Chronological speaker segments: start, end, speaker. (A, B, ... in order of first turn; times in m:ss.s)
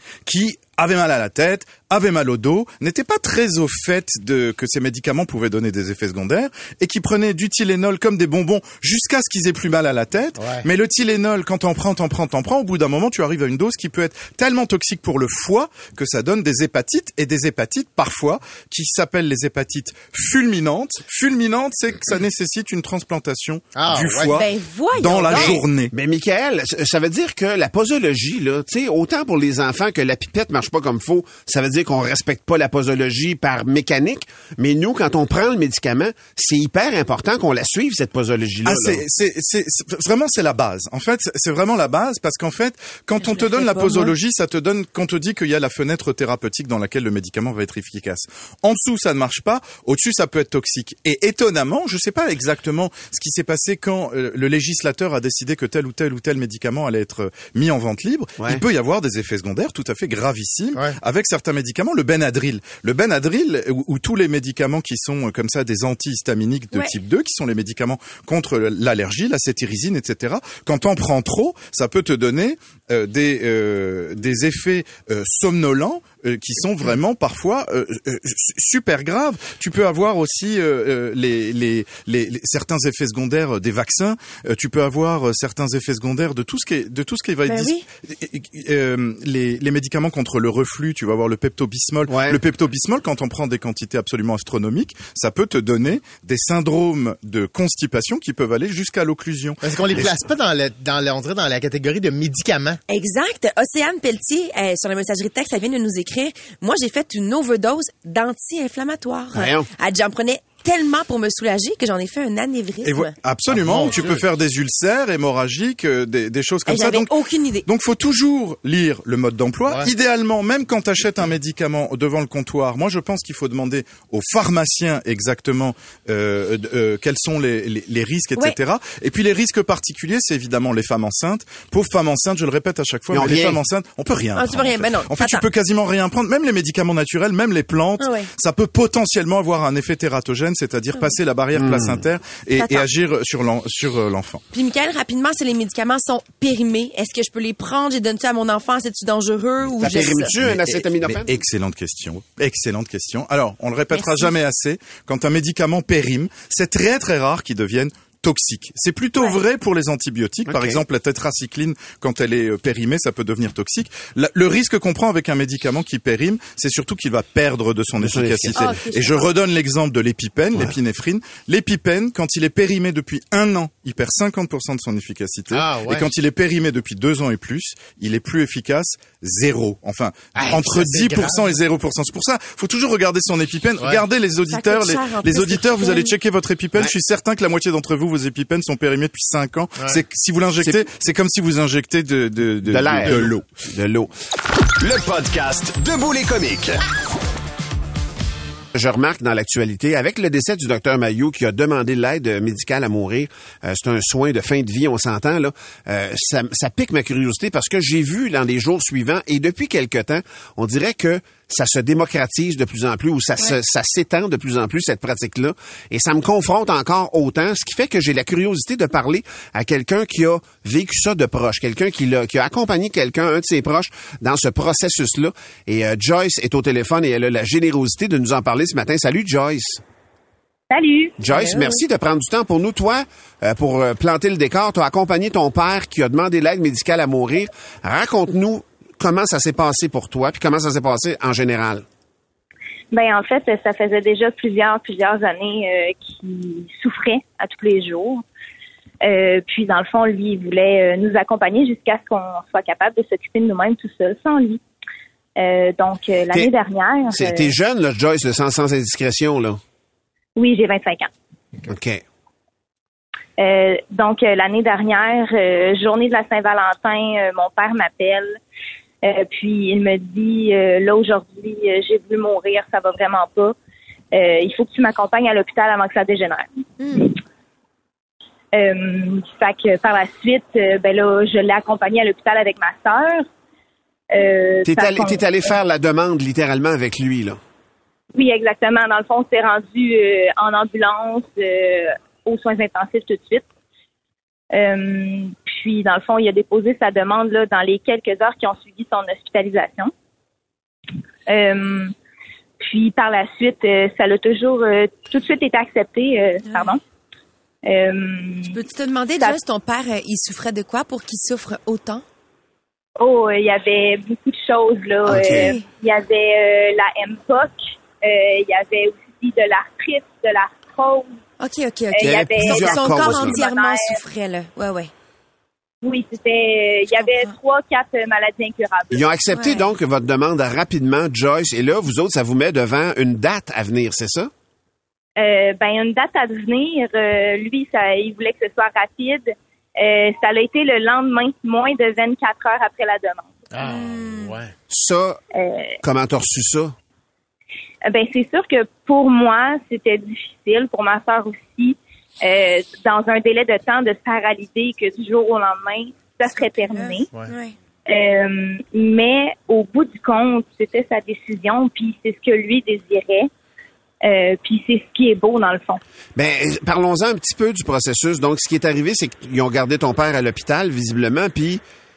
0:00.2-0:25.9 A
0:10.4-0:10.7 B
0:23.8-0:24.3 B
0:24.3-0:25.6 C
0:25.3-0:39.0 D
0:38.6-1:39.6 A
0:43.2-0:44.1 C
1:27.5-1:27.9 C
1:32.1-1:32.4 D
1:39.6-1:42.8 B
1:42.9-1:53.1 C
1:49.3-1:49.7 D
1:52.8-1:57.1 A
1:53.5-1:54.1 B
1:56.7-1:57.7 C
1:57.6-2:24.4 A
2:13.1-2:13.6 D
2:14.4-2:15.5 C
2:18.0-2:18.3 C
2:21.6-2:22.0 D
2:22.6-2:22.9 C
2:24.5-2:30.3 C
2:29.8-2:31.3 D
2:30.4-3:13.4 A
2:33.9-2:34.3 C
2:40.5-2:40.8 D
2:48.0-2:48.6 D
2:48.6-2:49.3 C
2:55.5-2:56.1 B
3:00.4-3:01.5 B
3:04.5-3:06.1 C
3:12.6-3:14.1 D
3:14.8-3:16.8 E
3:18.8-3:49.8 D
3:50.7-3:51.7 F
3:51.2-4:01.8 D
4:02.9-4:08.2 F
4:09.0-4:14.6 F
4:15.4-4:17.5 F
4:17.1-4:19.6 D
4:20.4-4:21.1 F
4:21.7-4:22.0 D
4:23.4-4:28.4 F
4:29.0-4:33.6 F
4:34.1-4:37.1 F
4:36.8-4:37.1 C
4:38.5-4:43.3 F
4:44.1-4:45.3 F
4:44.6-4:47.4 D
4:48.2-4:53.4 F
4:54.5-4:59.9 F
5:01.3-5:01.9 F
5:02.6-5:06.8 F
5:06.4-5:06.8 C
5:07.7-5:08.6 F
5:08.5-5:12.0 C
5:13.0-5:21.2 F
5:15.1-5:15.5 D
5:15.2-5:15.6 C
5:21.4-5:24.9 C
5:22.0-5:24.0 F
5:22.0-5:23.4 D
5:25.8-5:29.0 F
5:27.0-5:27.3 C
5:28.9-5:34.3 D
5:29.3-5:29.6 C
5:35.2-5:43.5 F
5:43.5-5:44.5 B
5:43.6-5:44.4 C
5:44.7-5:45.2 D
5:45.4-5:45.8 F
5:45.8-5:46.8 D
5:47.9-5:57.1 F
5:56.3-5:57.6 C
5:57.9-6:03.3 F
6:04.0-6:05.8 F
6:06.2-6:11.6 D